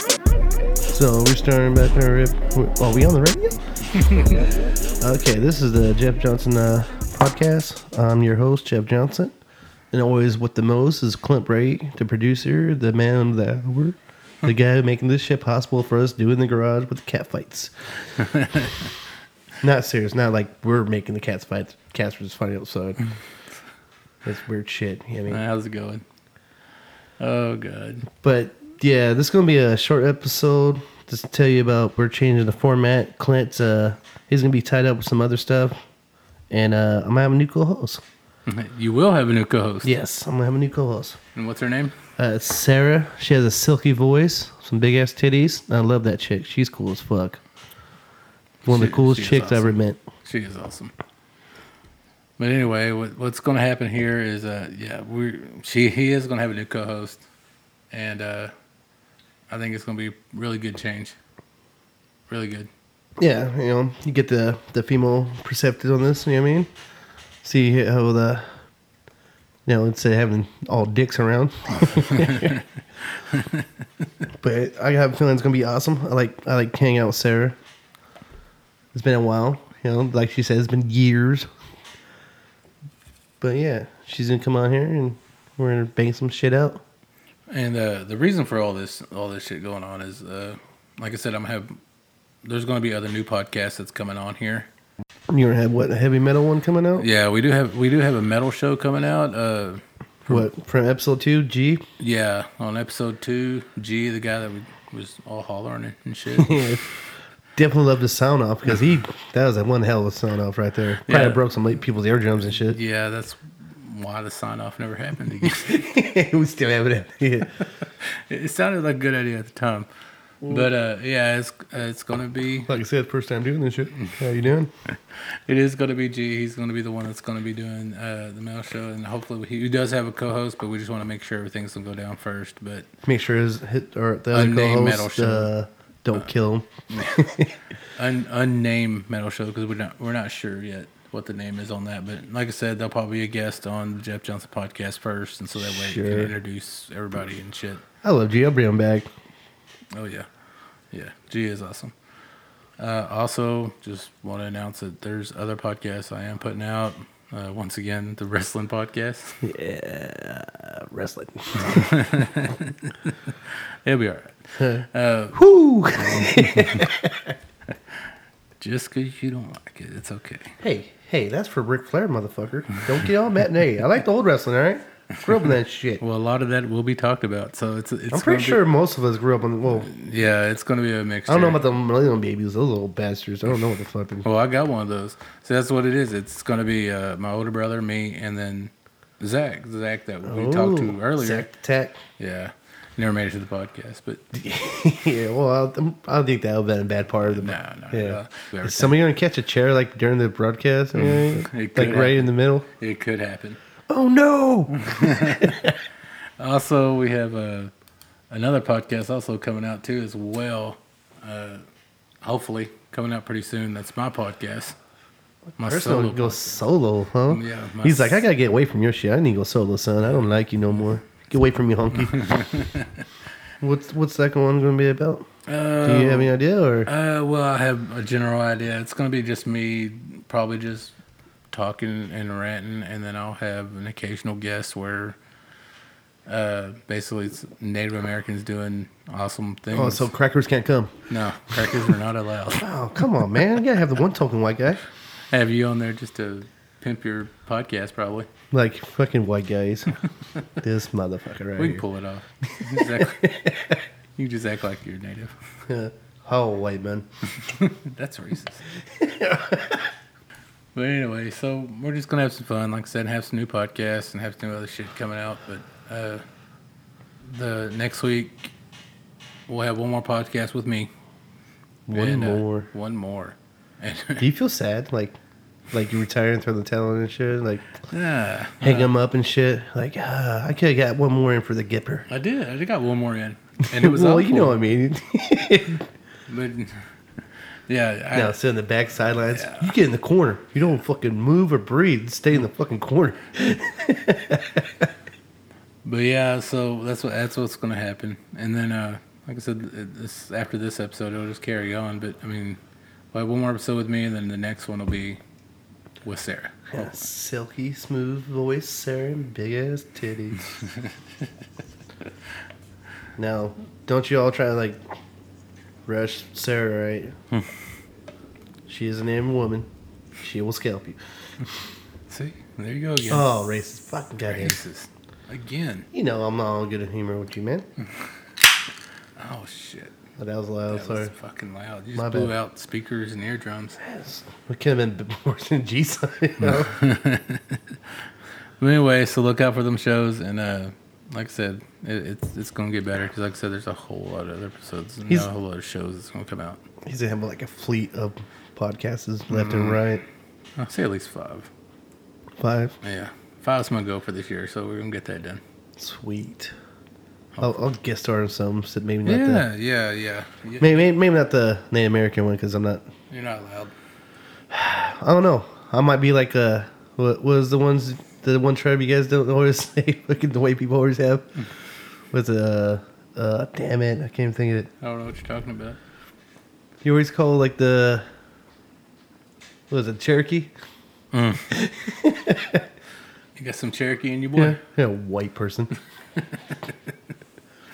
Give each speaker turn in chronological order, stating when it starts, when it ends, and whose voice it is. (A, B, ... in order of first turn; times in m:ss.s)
0:00.9-0:03.6 A
0:05.0-0:09.3 A
0:09.9-0:17.7 A
0:18.2-0:18.9 B
0:19.6-0:23.1 A
0:24.2-0:25.4 A
0:25.3-0:26.0 B
0:27.2-0:28.1 B
0:28.2-0:35.8 A
0:36.5-0:38.0 A
0:38.5-0:40.0 B
0:39.8-0:41.2 A
0:41.4-0:42.0 B
0:42.2-0:47.4 A
0:48.6-0:50.9 B
0:48.7-0:50.0 A
0:52.4-0:57.2 B
0:57.9-0:58.5 B
0:59.5-1:01.2 B
1:02.3-1:02.7 B
1:03.2-1:06.7 A
1:07.4-1:08.5 A
1:09.7-1:12.6 A
1:12.1-1:12.6 B
1:13.2-1:13.6 B
1:14.4-1:17.6 A
1:18.9-1:21.5 A
1:23.4-1:26.8 A
1:27.5-1:31.8 B
1:32.4-1:34.7 B
1:35.3-1:37.1 A
1:37.0-1:40.4 B
1:40.3-1:41.8 A
1:42.0-1:46.7 B
1:46.4-1:46.8 A
1:47.6-1:52.8 A
1:51.0-1:51.4 B
1:52.5-1:55.8 B
1:55.4-1:57.5 A
1:58.0-1:59.9 B
2:00.4-2:02.8 B
2:02.7-2:04.7 A
2:05.1-2:12.9 B
2:13.1-2:17.5 A
2:14.3-2:15.5 B
2:16.9-2:17.3 B
2:17.9-2:27.8 B
2:25.6-2:26.3 A
2:28.0-2:29.1 A
2:30.0-2:30.3 B
2:30.9-2:31.9 B
2:32.8-2:39.4 B
2:39.4-2:41.9 A
2:41.6-2:45.4 B
2:44.6-2:47.4 A
2:45.9-2:46.9 B
2:48.6-2:50.6 B
2:50.6-2:56.0 A
2:56.0-2:58.7 B
2:58.1-2:59.9 A
2:59.7-3:01.6 B
3:01.3-3:04.3 A
3:04.2-3:11.5 B
3:10.2-3:12.0 A
3:12.2-3:14.2 B
3:14.3-3:22.7 A
3:17.2-3:19.0 B
3:20.9-3:23.6 B
3:23.9-3:25.8 A
3:24.8-3:25.5 B
3:26.4-3:27.7 B
3:28.3-3:31.6 B
3:32.2-3:34.8 B
3:35.6-3:36.6 B
3:35.6-3:42.3 A
3:37.3-3:38.2 B
3:42.0-3:43.1 B
3:43.6-3:45.3 A
3:45.5-3:46.4 B
3:45.8-3:46.9 A
3:46.9-3:50.9 B
3:51.5-3:55.2 B
3:56.3-4:00.1 B
3:59.7-4:01.1 A
4:01.1-4:02.7 B
4:01.6-4:01.9 A
4:02.5-4:04.8 A
4:05.3-4:08.3 B
4:08.5-4:10.0 A
4:10.6-4:11.8 A
4:11.6-4:13.4 B
4:12.6-4:13.7 A
4:14.2-4:15.4 B
4:15.7-4:17.1 A
4:17.4-4:18.7 B
4:18.9-4:19.9 A
4:20.8-4:26.2 B
4:27.2-4:28.5 B
4:29.5-4:30.9 B
4:31.9-4:32.7 A
4:31.9-4:34.3 B
4:34.2-4:35.2 A
4:35.7-4:37.7 A
4:37.9-4:38.9 B
4:38.6-4:42.1 A
4:42.1-4:44.6 B
4:43.7-4:45.9 A
4:46.3-4:46.9 B
4:47.7-4:48.4 B
4:48.1-4:54.9 A
4:49.3-4:49.8 B
4:55.8-5:02.6 B
5:03.1-5:05.2 B
5:06.0-5:06.9 B
5:06.7-5:10.5 A
5:13.2-5:14.8 A
5:15.9-5:17.2 A
5:18.7-5:19.7 A
5:20.2-5:21.0 A
5:22.1-5:23.4 B
5:23.1-5:24.6 A
5:24.3-5:25.9 B
5:25.9-5:27.7 A
5:29.2-5:30.0 B
5:30.2-5:31.1 A
5:30.7-5:33.8 B
5:31.9-5:32.3 A
5:33.8-5:36.8 A
5:36.4-5:37.8 B
5:38.6-5:46.6 B
5:46.8-5:50.0 A
5:49.3-5:49.8 B
5:50.6-5:51.5 B
5:52.4-5:52.8 A
5:52.8-5:55.4 B
5:55.8-5:56.5 A
5:57.4-5:59.5 A
5:59.1-6:00.8 B
6:00.6-6:02.8 A
6:03.1-6:03.7 B
6:04.5-6:11.3 A
6:12.1-6:14.7 A
6:14.8-6:15.8 B
6:16.8-6:18.0 A
6:19.7-6:20.5 A
6:21.1-6:21.5 B
6:21.5-6:22.6 A
6:23.4-6:24.6 B
6:24.4-6:25.7 A
6:26.2-6:26.9 B